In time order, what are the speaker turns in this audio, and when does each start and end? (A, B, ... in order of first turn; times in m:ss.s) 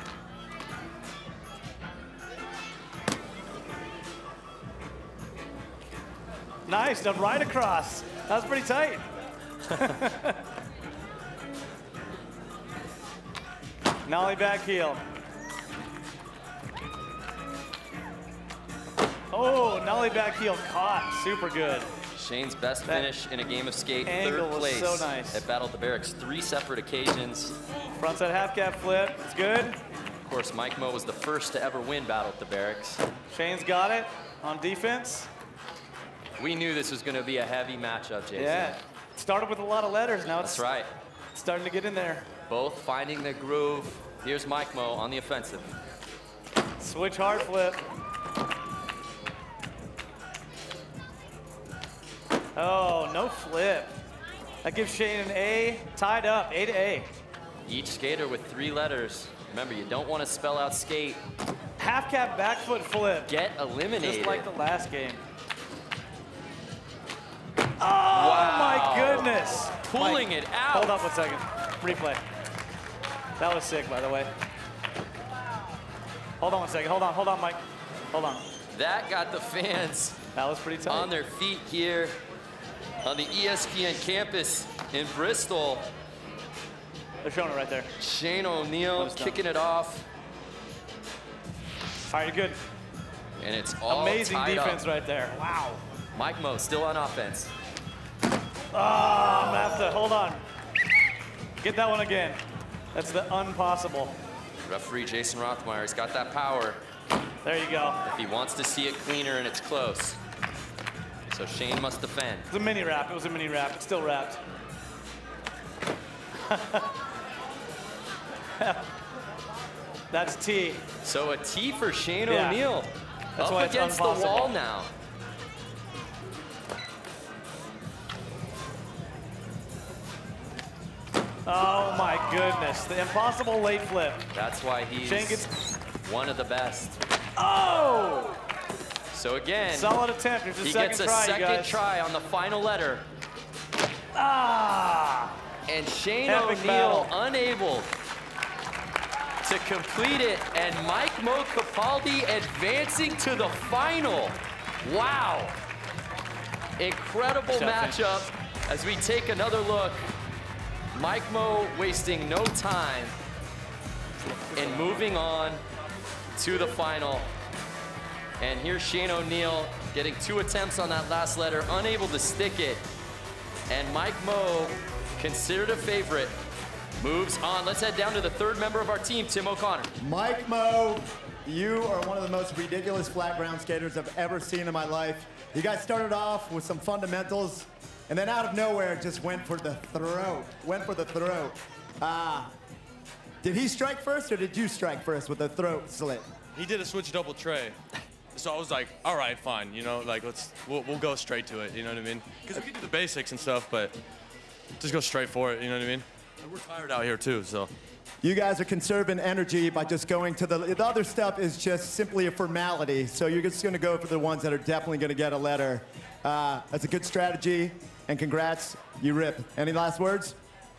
0:06.7-0:09.0 A
0:09.7-0:10.4 A
0:14.0-0:15.0 A
0:19.3-0:21.9 A
0:22.1-0:27.6 B
0:24.0-0:25.4 A
0:28.0-0:29.8 A
0:30.2-0:33.0 B
0:33.3-0:35.3 A
0:36.4-0:38.8 B
0:38.3-0:40.6 A
0:40.4-0:40.9 B
0:41.3-0:42.3 A
0:42.5-0:45.7 B
0:46.8-0:47.8 A
0:52.6-0:54.0 A
0:54.6-0:57.1 A
0:57.7-1:01.2 B
1:01.8-1:03.3 A
1:03.3-1:04.5 B
1:04.0-1:05.2 A
1:07.8-1:12.2 A
1:08.1-1:09.3 B
1:09.8-1:11.1 B
1:13.4-1:14.3 A
1:16.4-1:17.6 A
1:18.1-1:18.5 A
1:18.7-1:20.2 B
1:20.4-1:21.1 A
1:20.9-1:22.2 B
1:23.0-1:25.9 B
1:27.2-1:27.9 A
1:28.0-1:30.0 B
1:29.0-1:29.4 A
1:32.1-1:32.6 A
1:33.4-1:34.8 B
1:33.9-1:35.8 A
1:36.1-1:37.5 B
1:38.7-1:40.4 A
1:41.6-1:42.4 A
1:42.9-1:44.2 A
1:44.6-1:46.8 B
1:47.4-1:48.0 A
1:48.0-1:50.2 B
1:51.3-1:52.5 B
1:52.5-1:54.4 A
1:56.5-1:56.9 A
1:58.6-1:58.8 A
2:00.1-2:00.8 A
2:01.0-2:04.9 B
2:02.3-2:02.6 A
2:03.4-2:04.6 A
2:11.5-2:14.3 A
2:14.3-2:15.5 B
2:15.0-2:15.5 A
2:16.0-2:17.0 B
2:17.4-2:18.4 A
2:19.1-2:20.0 B
2:19.7-2:21.8 A
2:20.6-2:23.1 B
2:24.2-2:25.4 A
2:25.7-2:27.9 B
2:26.2-2:27.1 A
2:29.4-2:35.6 B
2:36.8-2:40.1 B
2:37.5-2:38.0 A
2:40.9-2:43.2 B
2:44.5-2:45.6 B
2:46.4-2:47.3 B
2:48.4-2:52.8 B
2:53.7-2:56.3 B
2:57.0-2:59.9 B
3:00.0-3:12.5 C
3:13.4-3:16.3 C
3:16.5-3:17.8 D
3:18.3-3:24.0 D
3:24.8-3:27.7 D
3:28.2-3:40.4 C